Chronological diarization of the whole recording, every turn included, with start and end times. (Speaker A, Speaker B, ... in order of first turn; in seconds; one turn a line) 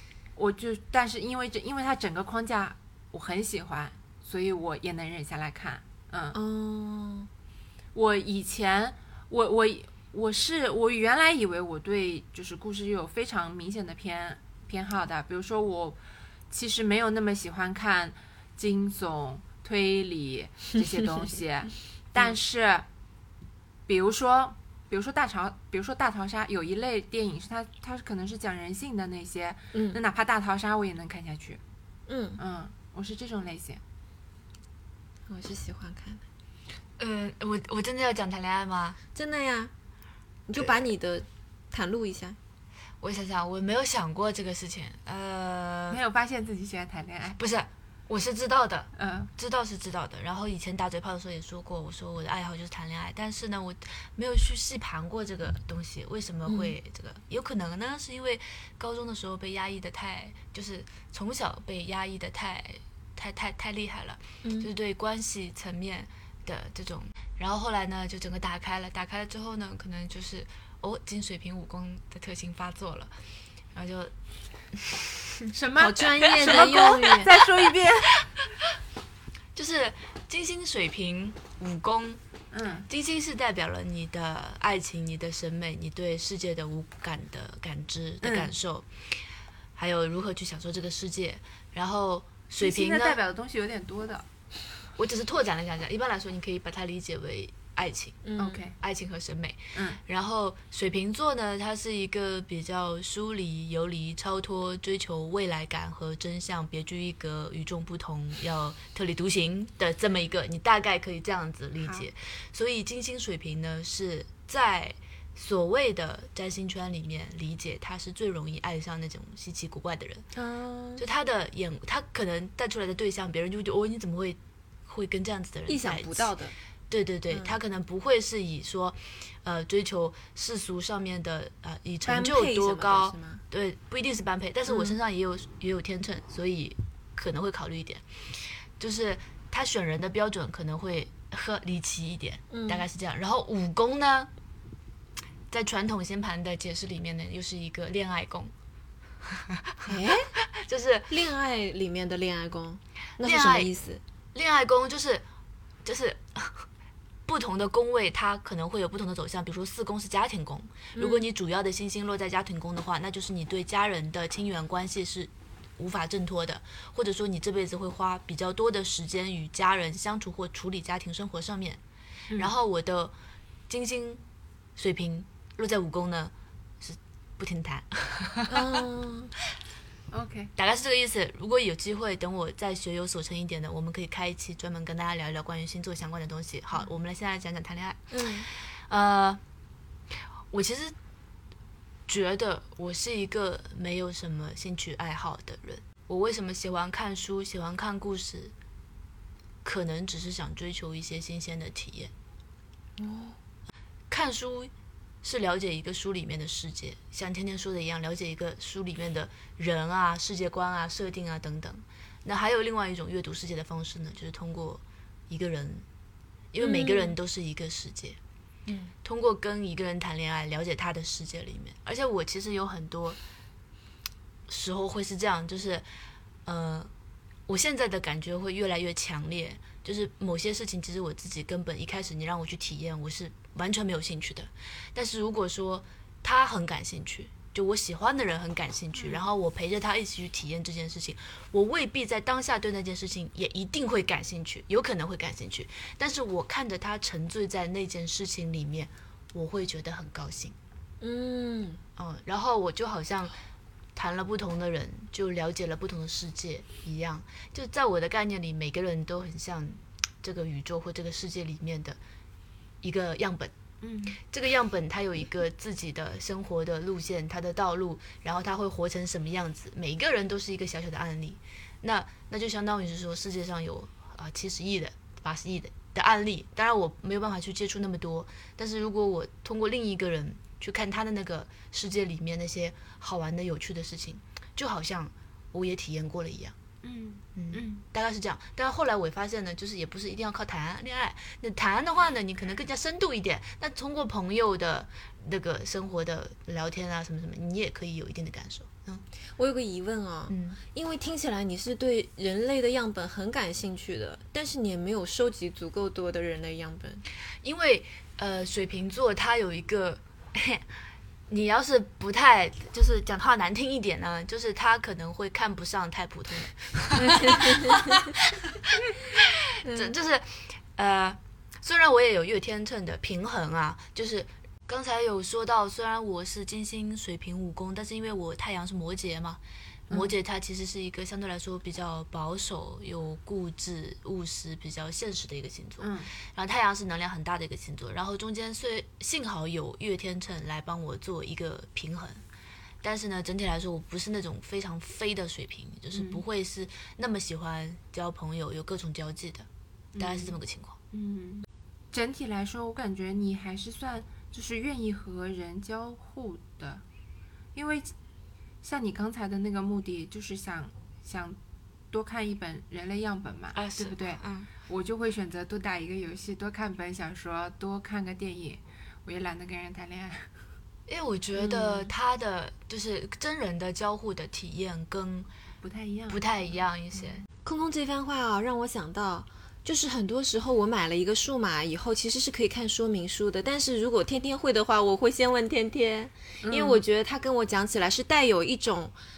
Speaker A: 0.3-6.4
Speaker B: 6.3-7.3
Speaker A: 7.9-16.0
Speaker A: 16.5-22.9
Speaker A: 23.9-31.6
Speaker B: 29.7-30.0
Speaker B: 32.1-32.4
Speaker A: 32.4-33.8
Speaker B: 35.3-36.2
Speaker C: 37.0-39.0
Speaker B: 39.1-39.7
Speaker B: 40.5-42.4
Speaker C: 43.0-46.0
Speaker A: 45.9-47.4
Speaker C: 47.4-73.1
Speaker A: 49.0-49.3
Speaker B: 56.5-56.7
Speaker B: 64.4-64.7
Speaker C: 73.7-74.1
Speaker C: 74.7-75.1
Speaker A: 75.5-78.1
Speaker B: 75.8-77.3
Speaker C: 79.5-82.2
Speaker A: 82.5-82.9
Speaker C: 82.9-88.9
Speaker A: 88.2-88.5
Speaker C: 89.8-93.2
Speaker A: 92.6-94.2
Speaker C: 95.0-98.2
Speaker B: 98.2-98.6
Speaker A: 98.4-98.8
Speaker C: 98.8-120.2
Speaker A: 99.7-100.0
Speaker A: 111.8-112.1
Speaker B: 120.3-121.0
Speaker C: 121.0-126.3
Speaker B: 125.7-126.5
Speaker C: 126.9-138.0
Speaker B: 127.3-127.6
Speaker B: 132.0-133.4
Speaker B: 134.7-135.0
Speaker C: 138.8-144.3
Speaker B: 142.5-142.8
Speaker C: 145.5-148.5
Speaker C: 149.3-151.1
Speaker B: 149.8-150.3
Speaker B: 151.1-154.0
Speaker C: 153.2-153.7
Speaker C: 154.3-155.2
Speaker C: 155.8-156.7
Speaker C: 157.3-171.8
Speaker B: 160.9-161.3
Speaker C: 172.3-173.1
Speaker C: 173.7-174.2
Speaker C: 174.8-178.8
Speaker B: 178.5-179.3
Speaker A: 180.1-180.5
Speaker C: 180.6-189.4
Speaker B: 188.1-188.5
Speaker C: 190.5-190.9
Speaker C: 192.1-198.5
Speaker C: 199.6-202.1
Speaker B: 203.0-203.4
Speaker C: 204.1-204.7
Speaker C: 205.2-215.8
Speaker C: 216.5-218.2
Speaker B: 216.6-217.2
Speaker C: 219.0-223.2
Speaker C: 224.5-225.8
Speaker C: 226.4-226.9
Speaker C: 227.5-250.5
Speaker A: 238.9-239.2
Speaker B: 251.0-251.8
Speaker C: 252.0-253.3
Speaker C: 253.9-262.0
Speaker C: 262.8-263.5
Speaker A: 263.8-264.2
Speaker C: 264.2-286.5
Speaker A: 286.8-287.8
Speaker C: 287.3-299.0
Speaker B: 299.4-307.0
Speaker C: 300.3-300.6
Speaker C: 307.4-310.6
Speaker C: 311.3-342.2
Speaker B: 316.9-318.1
Speaker B: 319.6-319.9
Speaker A: 335.8-336.1
Speaker C: 342.8-349.5
Speaker A: 345.9-346.2
Speaker A: 349.9-350.4
Speaker C: 350.0-350.8
Speaker A: 350.9-356.8
Speaker A: 357.5-357.9
Speaker A: 358.6-361.4
Speaker A: 361.9-370.3
Speaker C: 363.5-364.5
Speaker C: 370.9-375.3
Speaker A: 375.6-376.2
Speaker C: 376.1-377.2
Speaker B: 377.4-388.9
Speaker A: 386.4-386.8